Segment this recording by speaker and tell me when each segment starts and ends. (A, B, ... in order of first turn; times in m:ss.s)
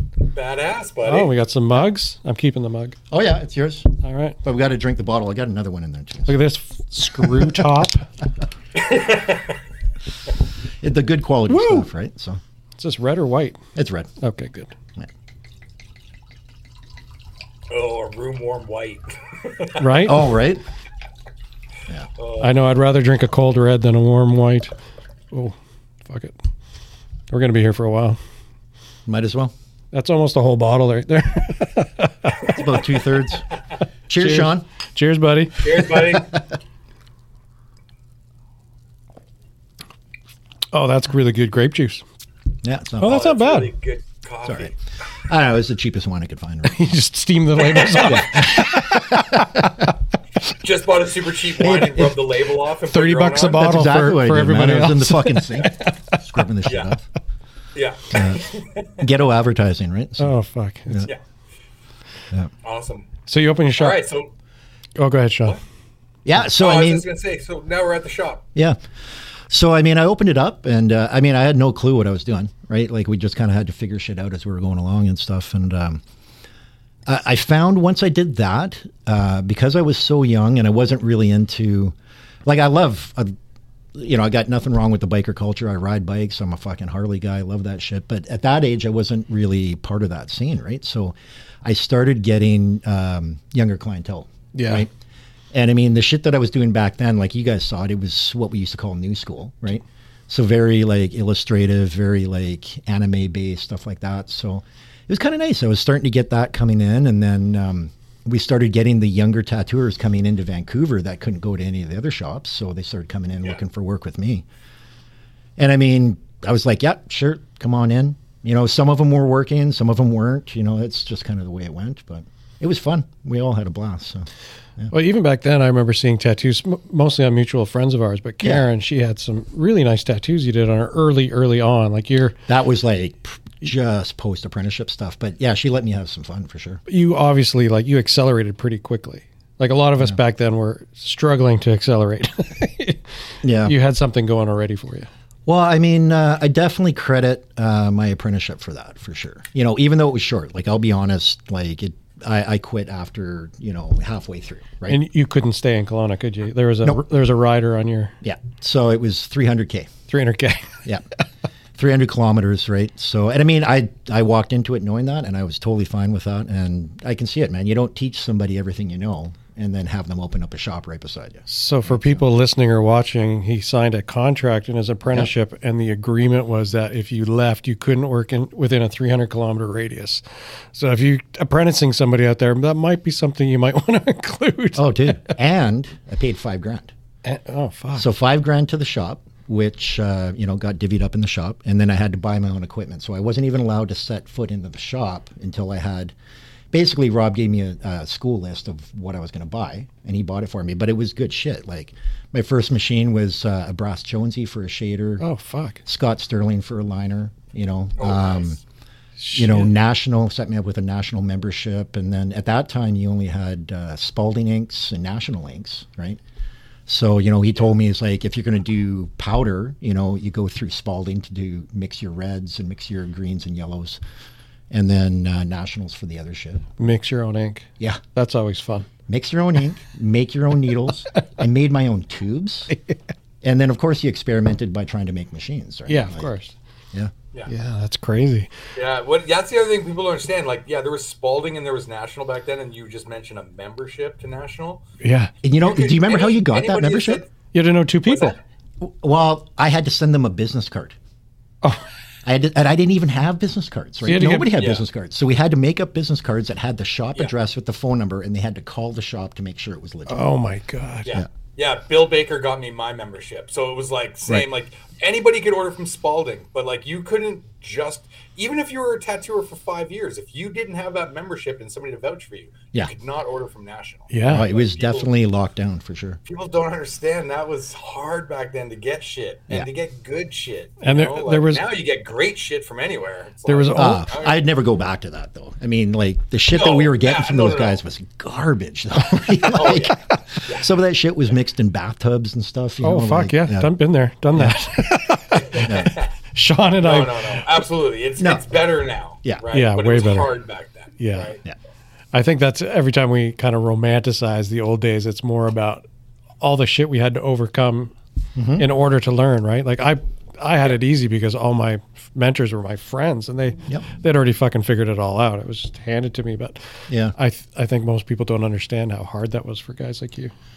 0:00.2-0:01.3 A
0:01.0-0:03.0 B
0:03.1-0:03.9 C
0:04.0-0:04.4 B
0:04.4-0:06.4 C
0:06.3-0:08.1 B
0:08.8-0:09.5 A
0:10.8-0:12.4 C
0:11.5-0:11.9 B
0:12.8-0:13.6 B
0:13.7-0:14.1 C
0:14.2-0:14.7 B
0:17.7-0:19.8 A
0:19.8-0:20.2 B
0:20.0-0:20.6 C
0:22.2-0:22.5 A
0:22.4-0:24.7 B
0:26.1-0:26.4 B
0:27.3-0:28.2 B
0:29.0-0:29.5 C
0:29.9-0:32.5 B
0:32.4-0:33.4 C
0:34.1-0:34.6 C
0:34.2-0:35.6 B
0:35.6-0:36.4 A
0:40.7-0:42.0 B
0:42.6-0:43.2 C
0:43.0-0:43.7 B
0:43.0-0:44.7 A
0:44.4-0:44.7 C
0:45.3-0:46.9 C
0:46.6-0:49.9 B
0:47.7-0:48.2 A
0:48.0-0:49.4 C
0:50.6-0:53.6 A
0:51.6-0:52.2 C
0:52.9-0:56.1 B
0:53.5-0:57.0 C
0:56.6-0:56.9 A
0:57.7-0:58.9 A
0:58.1-0:58.4 C
0:59.0-1:00.3 C
1:00.2-1:01.1 B
1:02.6-1:03.1 A
1:03.3-1:04.0 B
1:03.8-1:04.3 A
1:05.0-1:05.6 B
1:06.2-1:07.0 C
1:06.6-1:08.4 A
1:09.5-1:16.0 C
1:17.0-1:23.3 C
1:23.9-1:34.9 C
1:34.5-1:34.8 B
1:35.5-1:54.4 C
1:55.6-2:04.3 C
2:04.9-2:12.4 B
2:12.5-2:16.8 C
2:16.9-2:23.0 B
2:23.4-2:23.7 C
2:23.6-2:25.1 B
2:25.4-2:35.0 C
2:34.9-2:38.1 B
2:38.2-2:39.9 C
2:40.1-2:40.7 B
2:41.8-2:52.2 C
2:51.5-3:00.2 B
3:00.7-3:05.3 B
3:04.7-3:06.9 C
3:07.2-3:08.1 B
3:08.0-3:16.1 C
3:16.7-3:25.2 C
3:25.2-3:25.8 B
3:25.8-3:28.6 C
3:28.0-3:28.6 A
3:29.2-3:29.7 B
3:29.3-3:36.2 C
3:36.9-3:44.0 C
3:44.7-3:46.7 C
3:46.8-3:48.9 B
3:49.1-3:52.7 C
3:53.4-3:56.3 C
3:55.9-3:56.5 B
3:57.5-3:58.5 B
3:58.8-4:04.8 A
4:05.0-4:05.3 B
4:05.4-4:07.2 C
4:05.6-4:07.3 A
4:07.5-4:08.4 B
4:08.0-4:08.4 A
4:08.8-4:11.0 C
4:12.2-4:20.2 C
4:14.0-4:14.5 B
4:14.5-4:14.8 A
4:20.1-4:21.1 B
4:21.0-4:35.1 A
4:34.1-4:34.4 B
4:34.3-4:36.2 C
4:36.3-4:44.4 A
4:40.8-4:41.6 B
4:43.4-4:44.0 B
4:43.7-4:53.7 C
4:46.5-4:47.8 A
4:49.5-4:49.9 A
4:52.8-4:57.5 B
4:54.3-4:54.7 C
4:55.5-4:56.0 C
4:55.6-4:56.1 A
4:56.8-5:01.4 A
4:58.2-4:58.4 C
4:59.5-5:00.3 B
5:01.0-5:01.3 B
5:02.1-5:05.8 B
5:06.4-5:07.9 B
5:08.4-5:08.7 C
5:08.6-5:20.3 B
5:16.9-5:17.2 C